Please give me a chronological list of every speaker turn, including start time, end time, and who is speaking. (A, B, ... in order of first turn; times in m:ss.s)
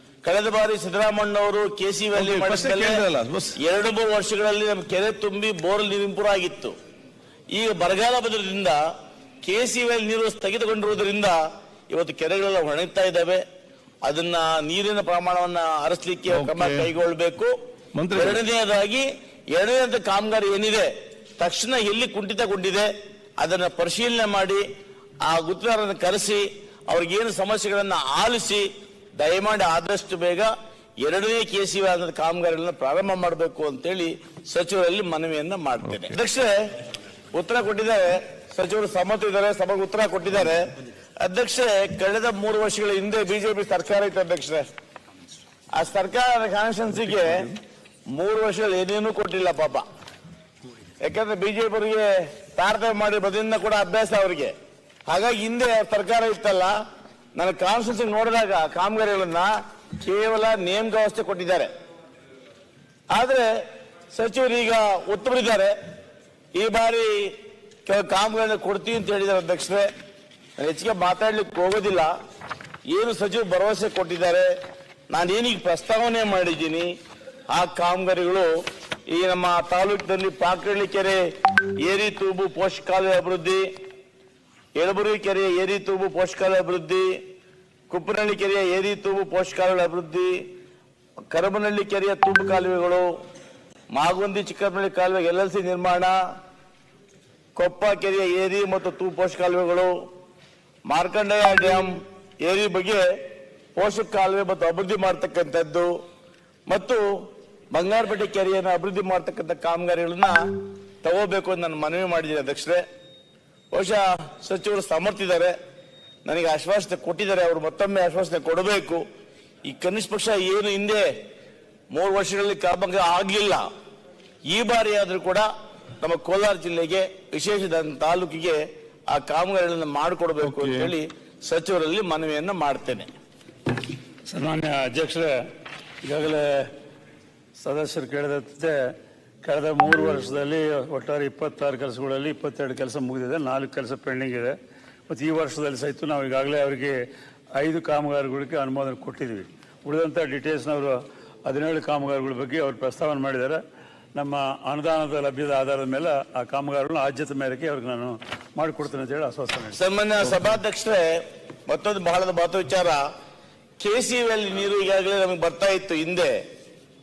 0:00.2-0:03.0 A
0:02.2-0:03.6 B
0:03.6-0:06.7 A
0:07.5-0:08.8 A
0:09.4-0:11.4 A
0:11.9-0:13.4 A
0:14.0-0:17.6 A
0:16.3-0:16.9 B
0:18.0-0:18.4 B
0:18.1-0:22.9 A
0:23.4-0:24.6 A
0:25.2-0:30.5 A
0:31.0-0:36.7 A
0:35.8-0:36.1 B
0:37.3-0:40.7 A
0:41.2-0:44.6 A
0:45.8-0:47.5 A
0:48.1-0:49.8 A
0:51.0-0:54.5 A
0:55.1-0:56.8 A
0:57.4-1:01.7 A
1:03.1-1:03.5 A
1:04.1-1:05.7 A
1:06.6-1:07.3 A
1:07.9-1:09.9 A
1:10.6-1:12.1 A
1:12.9-1:14.5 A
1:15.1-1:16.9 A
1:17.5-1:18.5 A
1:19.1-1:21.3 A
1:21.8-1:23.7 A
1:24.8-1:27.2 A
1:27.9-1:30.5 A
1:31.3-1:33.1 A
1:33.9-1:36.2 A
1:37.6-1:39.9 A
1:40.9-1:43.1 A
1:43.8-1:45.9 A
1:46.7-1:50.4 A
1:51.0-1:52.8 A
1:53.7-1:55.6 A
1:56.2-1:59.0 A
1:59.7-2:01.1 A
2:01.9-2:03.7 A
2:04.5-2:05.5 A
2:06.0-2:08.6 A
2:09.1-2:13.1 A
2:10.4-2:10.9 B
2:14.3-2:15.4 C
2:16.0-2:16.7 C
2:17.6-2:18.8 C
2:19.4-2:24.6 C
2:25.1-2:27.0 C
2:27.6-2:33.6 C
2:34.2-2:40.4 C
2:39.7-2:43.0 A
2:43.8-2:46.4 A